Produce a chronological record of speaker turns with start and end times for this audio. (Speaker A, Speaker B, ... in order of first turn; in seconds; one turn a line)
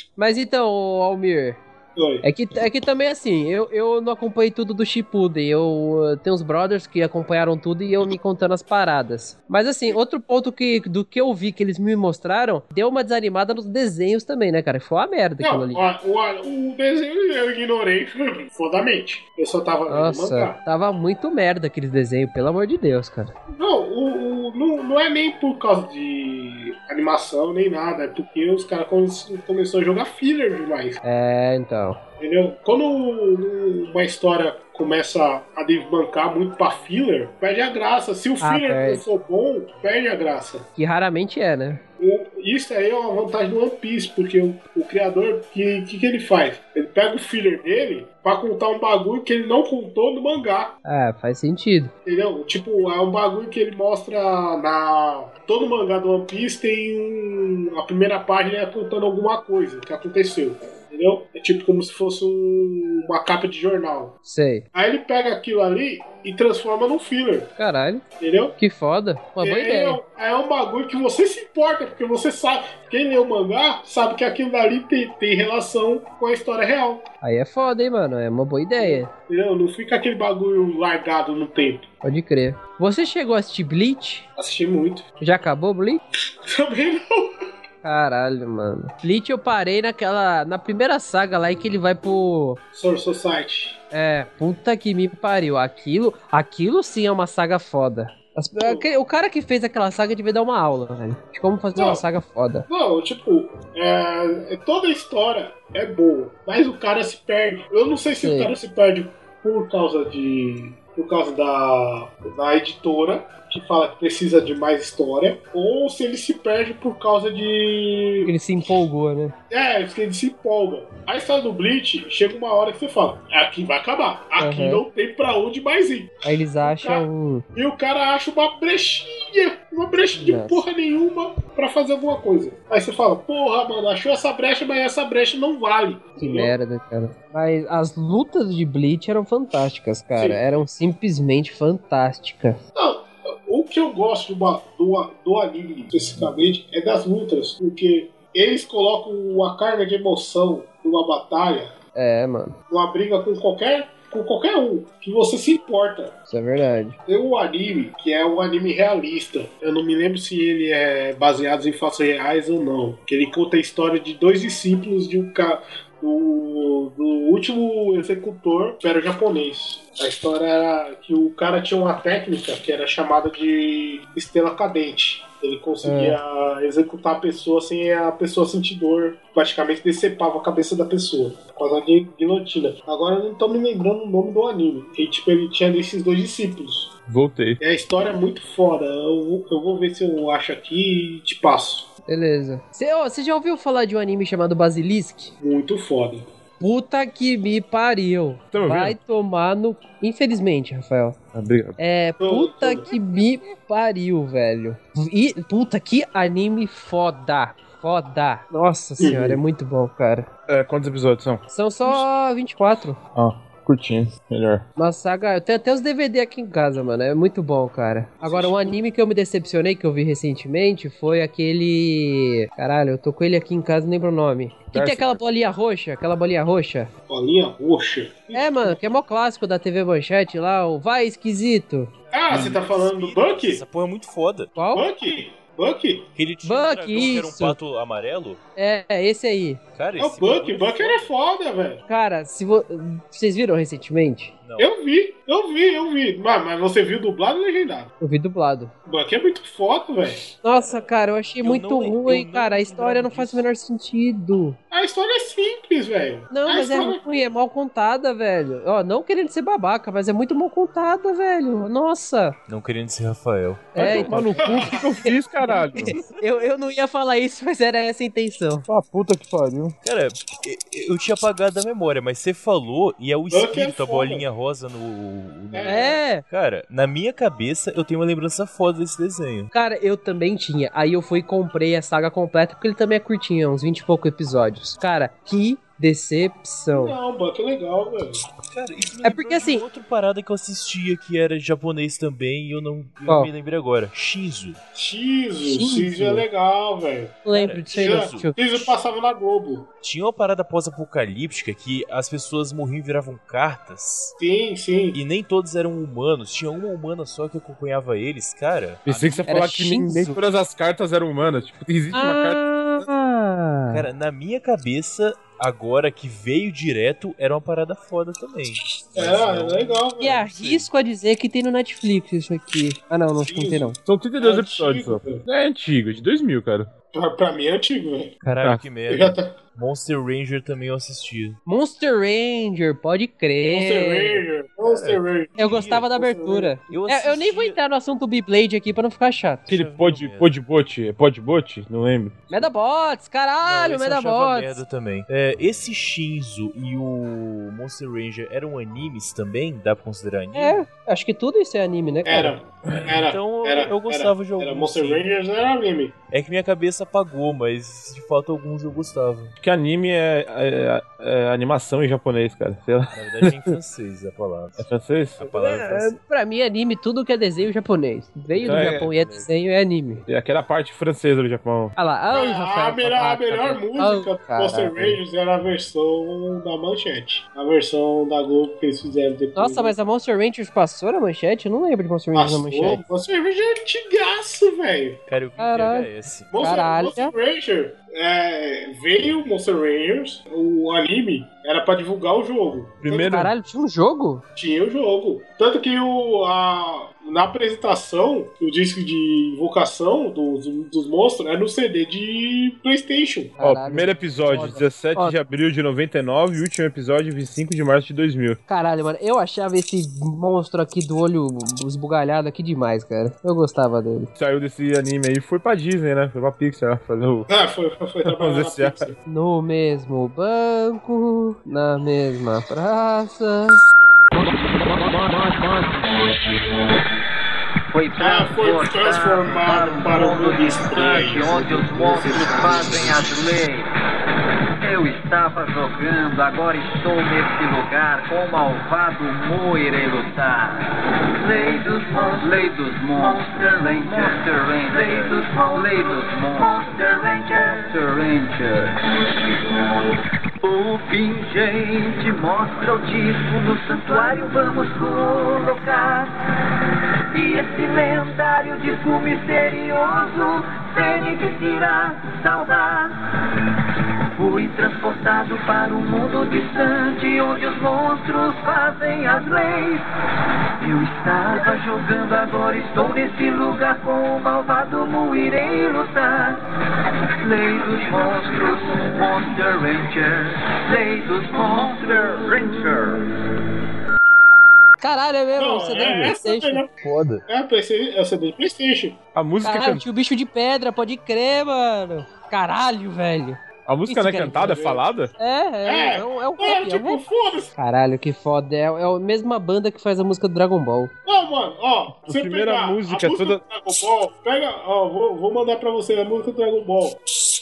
Speaker A: 0.2-1.6
Speaker B: 1.9-2.2
Speaker A: 2.2-15.8
Speaker B: 15.4-20.6
Speaker A: 19.9-23.3
Speaker B: 23.5-31.0
Speaker A: 31.0-32.0
Speaker B: 32.2-40.7
Speaker A: 38.4-39.0
Speaker A: 40.8-41.8
Speaker B: 42.0-50.8
Speaker A: 50.8-51.9
Speaker B: 52.0-64.2
Speaker A: 64.2-64.7
Speaker B: 64.7-67.5
Speaker A: 67.6-68.0
Speaker B: 68.2-68.6
Speaker A: 68.6-70.0
Speaker B: 69.4-77.0
Speaker A: 77.2-79.1
Speaker B: 78.8-81.9
Speaker A: 82.0-84.2
Speaker B: 84.4-85.0
Speaker A: 85.2-86.0
Speaker B: 86.5-87.3
Speaker A: 87.8-92.6
Speaker B: 92.7-93.8
Speaker A: 93.9-102.7
Speaker B: 98.6-98.8
Speaker B: 101.8-102.0
Speaker B: 102.7-118.3
Speaker A: 108.2-108.5
Speaker A: 118.2-119.3
Speaker B: 119.5-136.5
Speaker A: 124.4-124.8
Speaker A: 126.2-127.4
Speaker A: 130.1-130.6
Speaker A: 136.2-142.6
Speaker B: 140.2-140.4
Speaker B: 142.7-151.7
Speaker A: 151.9-152.5
Speaker B: 152.7-156.2
Speaker A: 156.3-157.0
Speaker B: 157.1-186.9
Speaker A: 175.8-176.2
Speaker C: 187.1-187.6
Speaker B: 187.6-191.9
Speaker A: 192.1-195.3
Speaker B: 195.4-196.2
Speaker A: 196.6-201.2
Speaker C: 198.5-199.0
Speaker C: 201.3-201.8
Speaker A: 201.8-210.3
Speaker B: 202.2-202.9
Speaker B: 209.0-209.4
Speaker C: 210.5-211.4
Speaker A: 211.5-213.0
Speaker C: 213.1-214.6
Speaker A: 214.8-226.9
Speaker B: 218.2-218.8
Speaker C: 224.7-225.2
Speaker B: 227.1-228.8
Speaker A: 228.3-231.9
Speaker B: 232.1-233.6
Speaker D: 232.3-234.5
Speaker A: 234.6-234.8
Speaker B: 234.7-236.1
Speaker D: 236.1-238.4
Speaker A: 236.4-237.6
Speaker A: 238.6-239.6
Speaker D: 239.7-241.1
Speaker B: 240.0-241.8
Speaker A: 241.9-244.3
Speaker D: 244.4-244.7
Speaker B: 244.6-247.9
Speaker A: 248.0-248.7
Speaker B: 248.8-250.2
Speaker A: 250.4-254.6
Speaker D: 251.4-253.5
Speaker B: 254.7-257.0
Speaker A: 256.3-262.4
Speaker D: 262.5-264.1
Speaker A: 263.7-268.7
Speaker C: 263.8-266.0
Speaker B: 264.4-264.8
Speaker C: 268.7-269.7
Speaker D: 269.8-279.5
Speaker B: 273.3-274.2
Speaker B: 275.5-276.0
Speaker A: 275.6-276.2
Speaker A: 279.5-286.9
Speaker B: 286.7-288.2
Speaker D: 288.4-294.6
Speaker A: 289.0-289.6
Speaker B: 294.7-299.7
Speaker A: 295.4-296.2
Speaker A: 297.2-298.4
Speaker D: 297.3-298.4
Speaker D: 299.8-304.1
Speaker B: 304.2-305.0
Speaker D: 304.9-309.3
Speaker C: 308.8-312.9
Speaker A: 309.3-310.2
Speaker A: 311.9-313.9
Speaker D: 313.7-320.7
Speaker B: 318.9-320.2
Speaker A: 320.0-323.8
Speaker B: 323.2-325.2
Speaker C: 323.8-326.7
Speaker B: 326.9-328.1
Speaker D: 328.2-331.4
Speaker C: 328.4-328.7
Speaker B: 328.9-329.3
Speaker A: 331.4-334.2
Speaker B: 333.5-336.5
Speaker D: 334.6-335.9
Speaker A: 335.4-339.5
Speaker D: 336.7-337.6
Speaker D: 339.5-340.3
Speaker C: 339.5-342.5
Speaker A: 342.3-344.6
Speaker D: 343.4-350.6
Speaker A: 350.3-352.3
Speaker B: 352.1-355.9
Speaker D: 352.7-355.1
Speaker D: 356.1-359.3
Speaker C: 359.4-363.5
Speaker D: 362.9-364.7
Speaker C: 364.6-365.3
Speaker D: 365.2-366.0
Speaker A: 365.2-370.0
Speaker D: 368.4-369.2
Speaker C: 368.4-368.9
Speaker C: 370.1-371.7
Speaker A: 371.8-375.0
Speaker B: 372.1-379.7
Speaker A: 379.3-382.8
Speaker B: 382.1-385.0
Speaker D: 385.1-386.3
Speaker A: 385.4-387.1
Speaker B: 386.3-392.8
Speaker C: 392.8-393.3
Speaker A: 392.9-394.2
Speaker B: 394.4-403.4
Speaker A: 403.4-405.2
Speaker C: 403.4-408.4
Speaker A: 408.5-414.1
Speaker C: 414.1-417.3
Speaker B: 417.3-418.9
Speaker C: 418.0-418.9
Speaker A: 419.1-423.6
Speaker E: 424.9-425.7
Speaker E: 427.7-433.7
Speaker B: 428.0-433.1
Speaker E: 434.6-449.6
Speaker E: 450.4-456.1
Speaker E: 457.1-463.0
Speaker E: 464.1-469.8
Speaker E: 470.6-476.4
Speaker E: 477.2-483.1
Speaker A: 484.8-486.6
Speaker B: 485.3-486.7
Speaker C: 485.8-486.1
Speaker D: 486.8-487.2
Speaker B: 487.3-489.0
Speaker C: 489.1-489.8
Speaker A: 489.4-494.6
Speaker C: 493.7-495.1
Speaker B: 494.3-494.9
Speaker A: 495.2-497.0
Speaker B: 495.6-497.5
Speaker A: 497.6-500.9
Speaker B: 501.0-507.0
Speaker C: 501.9-503.4